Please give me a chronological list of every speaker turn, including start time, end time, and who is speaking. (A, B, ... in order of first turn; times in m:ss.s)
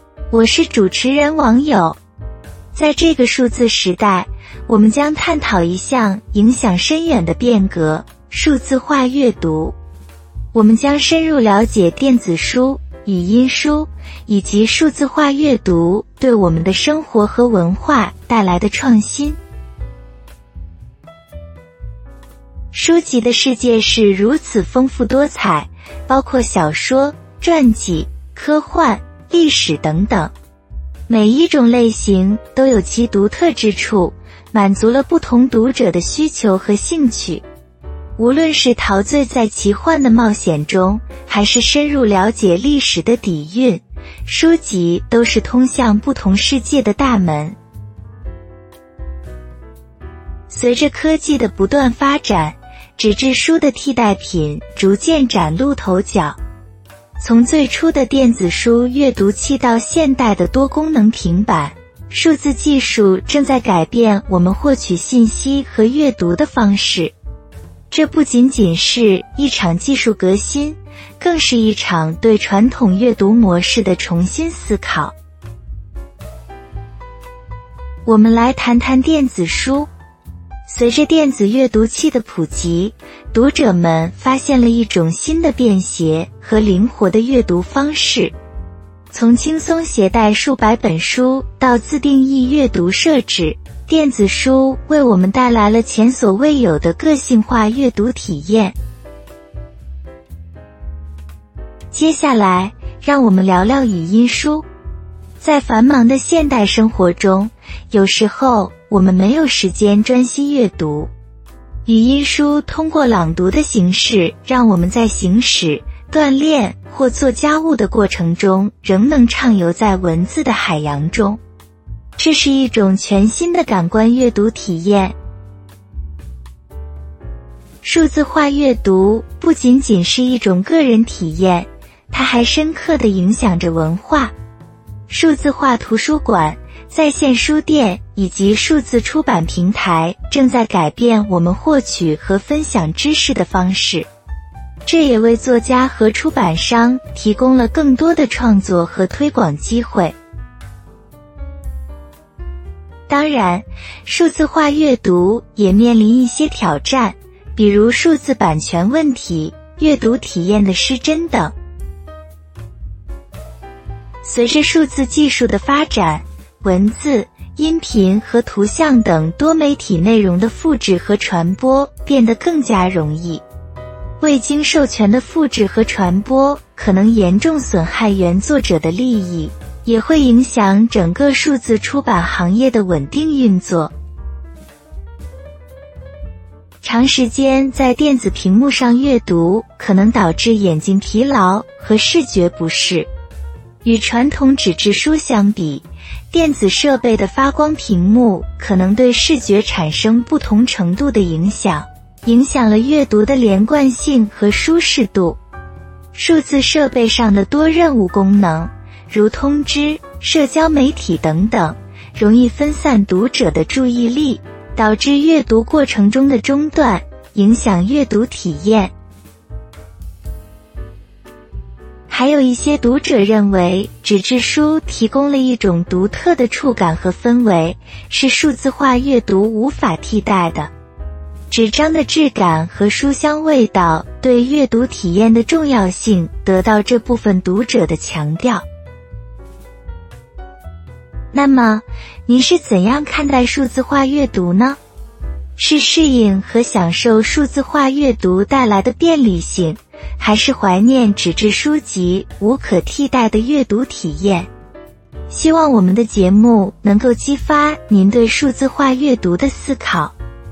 0:00.3-0:02.0 A
0:02.8-0:09.8 A
0:10.5-0:19.4 A
0:22.7-0:30.3 A
0:31.1-0:37.4 A
0:38.2-0:47.6 A
0:50.5-0:56.4 A
0:57.2-1:07.1 A
1:07.9-1:15.1 A
1:18.1-1:19.9 A
1:20.7-1:28.3 A
1:29.1-1:38.8 A
1:41.9-1:44.7 A
1:45.4-1:51.1 A
1:51.8-2:01.4 A
2:02.2-2:05.2 A
2:07.8-2:14.3 A
2:15.1-2:24.1 A
2:24.9-2:30.2 A
2:33.1-2:41.5 A
2:44.2-2:53.4 A
2:54.2-3:03.9 A
3:06.8-3:13.1 A
3:13.8-3:25.4 A
3:26.1-3:38.9 A
3:42.1-3:50.7 A
3:51.5-3:58.6 A
4:01.3-4:04.8 A
4:05.6-4:14.5 A
4:15.3-4:20.2 A